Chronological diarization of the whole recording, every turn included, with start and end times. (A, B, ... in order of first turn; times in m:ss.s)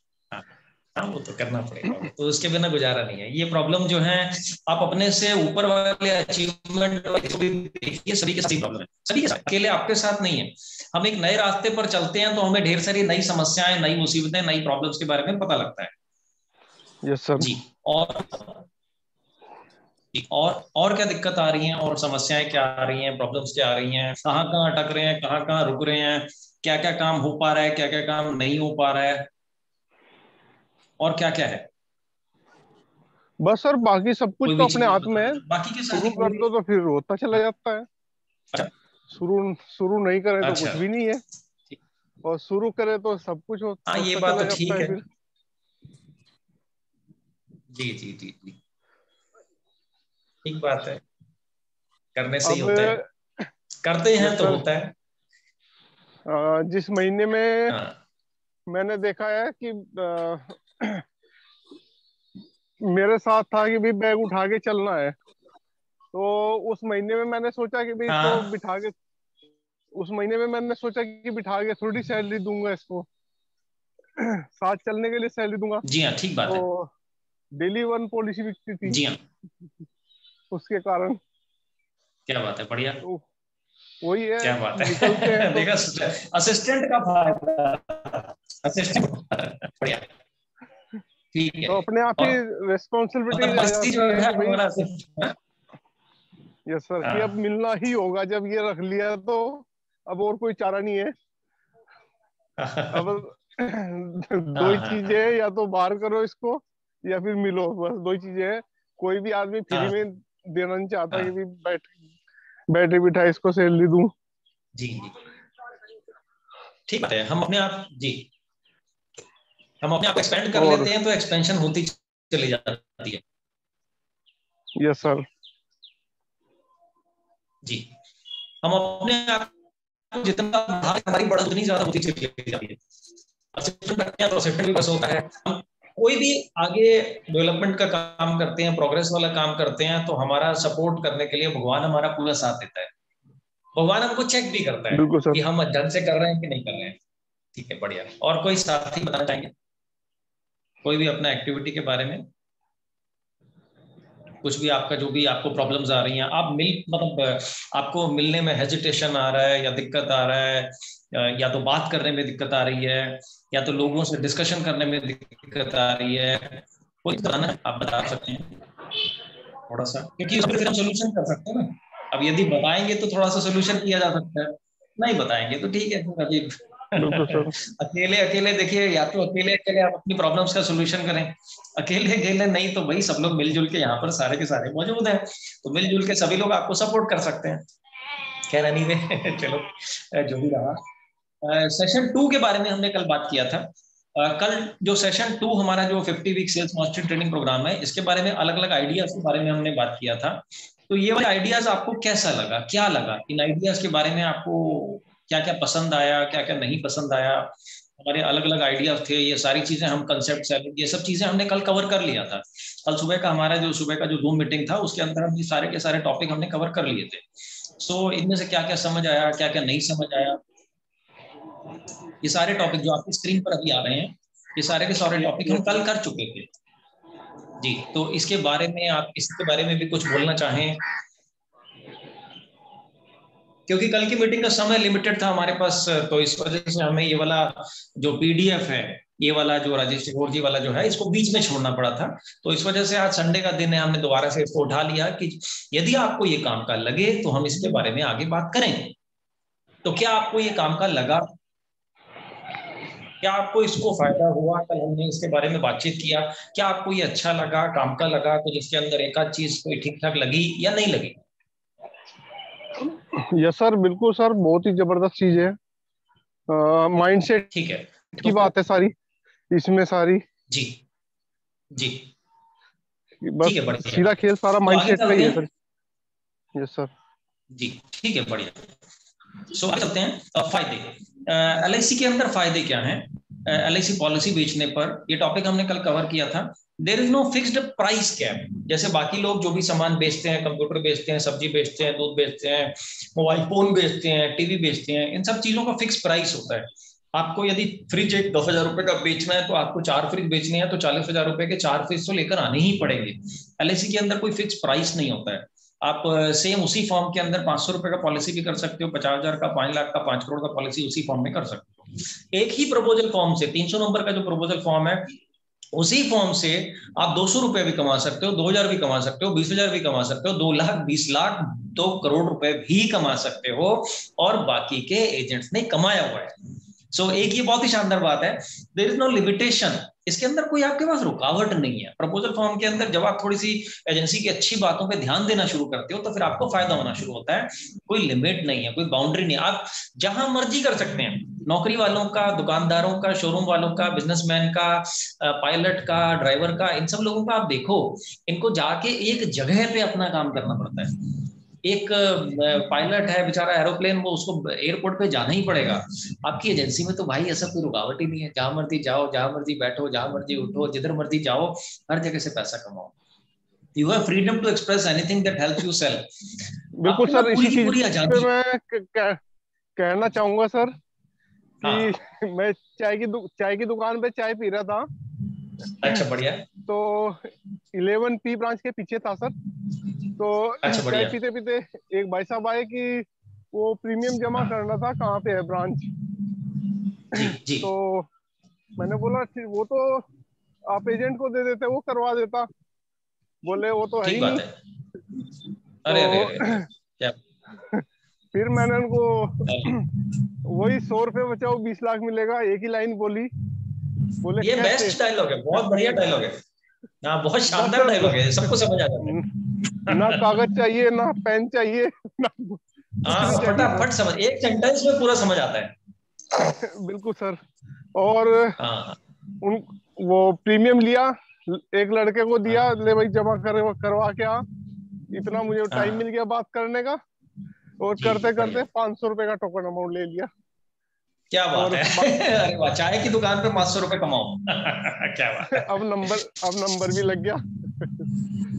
0:00.3-0:15.9 A
0:17.0-0:17.5 B
0:17.4-0:18.6 A
0:20.1-0:29.3 A
0:31.0-0:31.7 A
0:33.4-0:37.9 B
0:34.4-0:36.5 A
0:39.1-0:41.2 B
0:40.4-0:40.8 A
0:42.2-0:45.0 B
0:43.9-0:45.0 A
0:47.7-0:48.6 A
0:50.4-0:51.0 A
0:52.2-0:53.0 A
0:52.4-0:53.1 B
0:53.8-0:54.9 A
0:54.2-0:54.6 B
0:56.3-0:57.8 B
0:57.7-0:58.0 A
0:58.7-1:01.0 B
1:02.8-1:05.2 B
1:06.1-1:09.0 B
1:08.1-1:08.4 A
1:10.0-1:13.1 B
1:14.2-1:15.8 B
1:15.8-1:16.6 A
1:16.5-1:16.9 B
1:17.6-1:19.0 B
1:18.9-1:19.2 A
1:20.5-1:21.2 B
1:22.3-1:23.0 A
1:24.0-1:25.7 B
1:24.4-1:30.1 A
1:31.3-1:32.4 A
1:31.7-1:34.6 B
1:33.3-1:35.4 A
1:36.7-1:41.1 B
1:37.0-1:37.3 A
1:42.6-1:43.1 A
1:42.9-1:52.0 B
1:44.6-1:45.2 A
1:49.7-1:50.0 A
1:52.7-1:54.1 B
1:54.8-1:55.2 A
1:56.9-1:58.3 A
1:59.8-2:03.2 A
2:00.5-2:00.9 B
2:04.8-2:05.3 B
2:07.6-2:07.9 A
2:08.6-2:09.5 A
2:10.1-2:12.8 A
2:13.5-2:22.9 A
2:23.8-2:27.0 A
2:24.9-2:25.4 B
2:27.5-2:29.5 A
2:30.8-2:32.2 A
2:34.4-2:48.6 A
2:49.7-3:07.7 A
2:57.0-2:57.6 B
3:08.4-3:10.8 A
3:11.4-3:40.4 A
3:42.2-3:46.5 A
3:47.6-3:50.8 A
3:53.7-4:09.0 A
4:09.8-4:11.3 A
4:13.2-4:21.2 A
4:22.8-4:25.6 B
4:26.5-4:27.5 B
4:27.5-4:28.5 A
4:28.2-4:28.9 B
4:29.5-4:30.2 B
4:30.5-4:30.8 A
4:31.7-4:32.1 A
4:33.2-4:35.5 B
4:33.4-4:35.4 A
4:36.6-4:36.9 B
4:37.5-4:38.7 A
4:39.5-5:15.2 A
5:15.7-5:26.4 A
5:26.9-5:51.0 A
5:51.6-6:02.9 A
6:03.8-6:06.1 A
6:06.8-6:09.2 B
6:06.8-6:08.3 A
6:09.8-6:10.8 B
6:11.6-6:12.0 A
6:11.6-6:14.9 B
6:15.8-6:16.5 A
6:16.7-6:19.4 B
6:20.2-6:26.0 B
6:20.6-6:21.2 A
6:27.1-6:27.7 A
6:27.1-6:28.1 B
6:28.8-6:30.1 B
6:30.7-6:32.5 B
6:33.4-6:34.4 B
6:34.0-6:34.6 A
6:35.8-6:37.2 A
6:35.9-6:36.7 B
6:37.6-6:39.9 B
6:39.4-6:39.8 A
6:40.4-6:43.3 B
6:44.2-6:45.0 B
6:44.4-6:46.4 A
6:45.6-6:46.0 B
6:47.0-6:50.2 A
6:47.5-6:49.3 B
6:49.8-6:53.9 B
6:53.0-6:55.8 A
6:56.4-6:57.4 B
6:58.0-6:58.6 B
6:58.6-6:59.0 A
6:59.4-7:04.5 B
7:05.1-7:07.0 B
7:05.7-7:06.0 A
7:07.8-7:10.3 B
7:08.0-7:08.6 A
7:11.3-7:16.1 A
7:11.5-7:12.2 B
7:15.5-7:18.1 B